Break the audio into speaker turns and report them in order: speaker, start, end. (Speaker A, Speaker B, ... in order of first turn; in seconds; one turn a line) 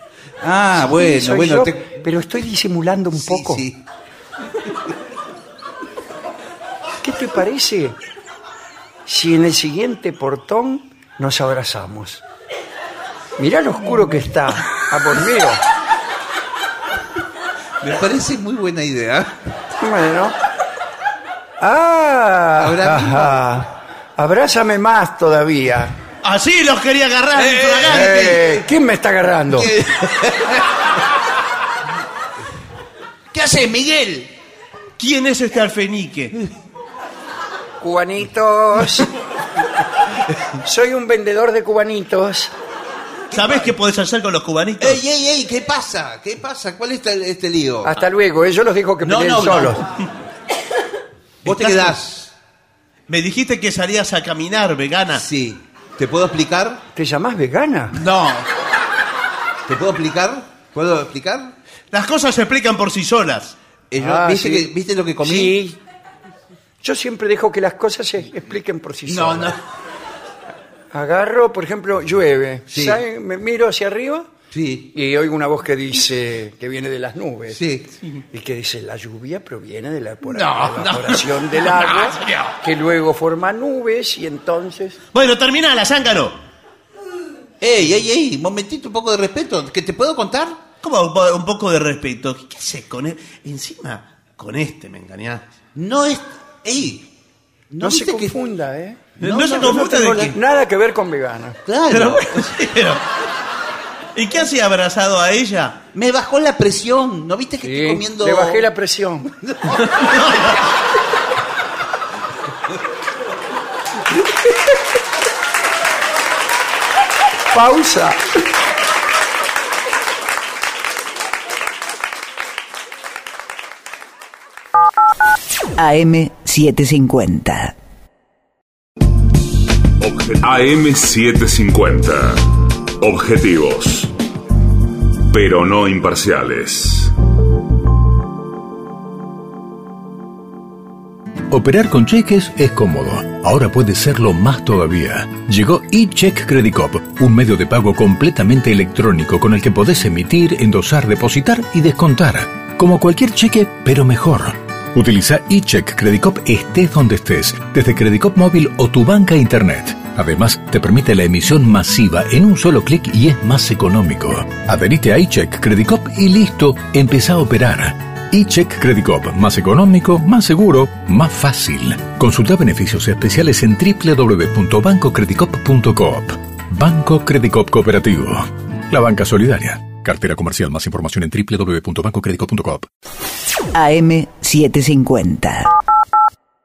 Speaker A: 0.4-2.0
Speaker B: 0.8-3.6
Speaker A: 3.1-3.8
Speaker B: 7.0-8.0
Speaker B: 9.1-12.2
Speaker B: 13.4-15.6
Speaker A: 17.8-19.4
Speaker B: 19.8-20.4
Speaker B: 21.6-25.9
Speaker A: 22.6-23.4
Speaker C: 26.2-28.5
Speaker A: 27.4-28.5
Speaker B: 27.9-29.7
Speaker A: 29.5-30.6
Speaker A: 33.3-34.3
Speaker C: 35.0-36.3
Speaker B: 37.8-39.1
Speaker B: 40.6-42.5
Speaker C: 43.3-45.0
Speaker A: 44.8-47.9
Speaker B: 47.8-49.8
Speaker A: 49.0-49.7
Speaker C: 51.4-52.0
Speaker A: 51.4-52.3
Speaker C: 53.1-55.2
Speaker A: 55.1-56.8
Speaker B: 56.9-58.0
Speaker C: 57.9-58.5
Speaker A: 59.6-61.5
Speaker C: 61.9-63.5
Speaker A: 63.9-65.6
Speaker B: 64.0-64.7
Speaker B: 65.2-65.8
Speaker B: 66.8-69.6
Speaker A: 69.1-69.5
Speaker B: 70.9-74.3
Speaker A: 72.7-73.0
Speaker A: 74.5-74.9
Speaker B: 74.9-77.6
Speaker A: 77.5-77.9
Speaker B: 78.3-85.0
Speaker C: 80.3-82.5
Speaker C: 85.1-86.4
Speaker A: 87.6-90.7
Speaker C: 90.8-95.4
Speaker A: 95.7-97.1
Speaker A: 97.7-98.3
Speaker B: 97.8-101.6
Speaker C: 99.2-100.4
Speaker A: 99.2-100.2
Speaker A: 101.7-102.5
Speaker C: 101.9-103.0
Speaker C: 104.2-105.8
Speaker A: 105.9-108.7
Speaker B: 107.6-109.3
Speaker B: 117.5-118.2
Speaker D: 125.8-127.8
Speaker E: 130.0-132.4
Speaker E: 133.0-134.1
Speaker E: 135.3-137.1
Speaker F: 141.5-182.9
Speaker D: 183.7-185.7